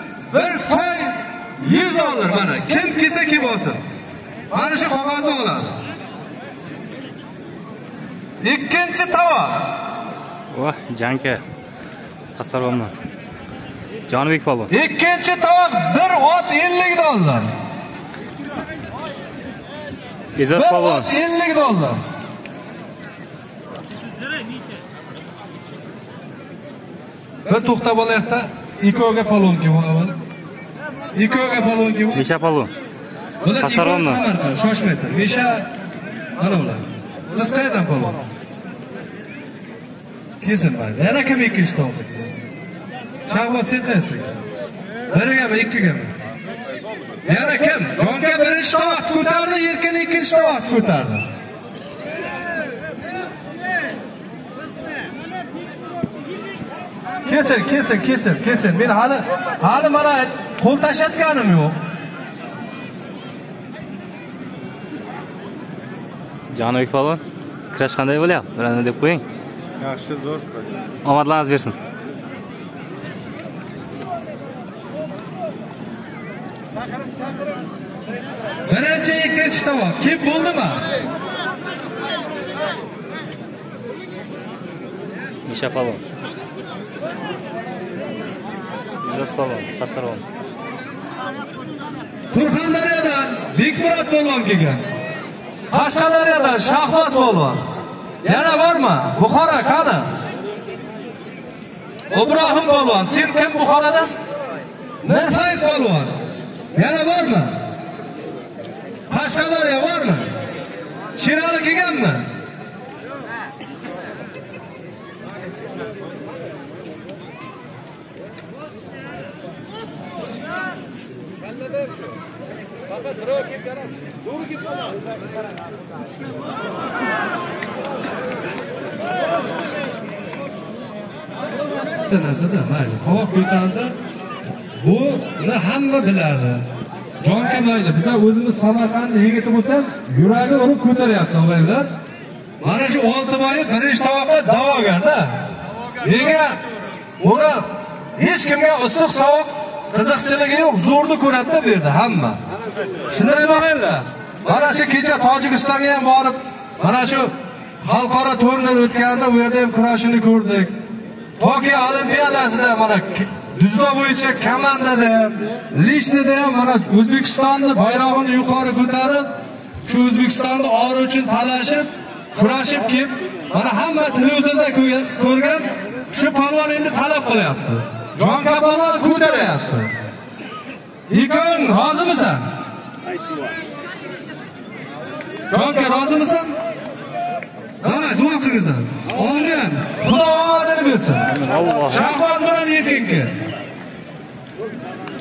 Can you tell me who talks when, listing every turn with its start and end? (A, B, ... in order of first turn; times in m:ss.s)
0:00.3-0:03.8 A
0:04.5-0:05.8 A
0:08.4-0:09.8 A
0:10.5-0:11.4 B
0:12.4-0:12.9 B
0:14.1-0:14.7 B
0:14.7-0:17.5 A
0:20.4-0:21.1 B
0:20.5-0:22.0 A
0:27.5-0:30.2 A
0:31.2-0:32.2 A
0:32.2-0:32.7 B
0:33.4-0:35.7 A
0:33.6-0:34.2 B
0:36.4-0:38.2 A
0:40.4-0:42.3 A
0:43.3-0:44.3 A
0:45.1-0:46.1 A
0:47.3-0:51.3 A
0:57.3-1:01.8 A
1:06.5-1:09.2 B
1:11.0-1:11.8 B
1:18.7-1:20.8 A
1:25.5-1:26.0 B
1:29.0-1:30.2 B
1:32.3-1:34.8 A
1:35.7-1:37.6 A
1:38.2-1:40.1 A
1:42.1-1:44.1 A
1:45.0-1:46.1 A
1:46.8-1:47.6 A
1:49.1-1:50.3 A
1:51.2-1:52.3 A
2:12.0-2:14.0 A
2:14.8-2:16.6 A
2:17.2-2:21.9 A
2:22.6-2:25.4 A
2:26.0-2:26.6 A
2:27.2-2:32.4 A
2:33.1-2:40.8 A
2:41.4-2:49.3 A
2:49.9-2:59.9 A
3:01.1-3:02.5 A
3:05.5-3:06.5 A
3:07.8-3:11.4 A
3:11.5-3:12.1 B
3:11.9-3:13.3 A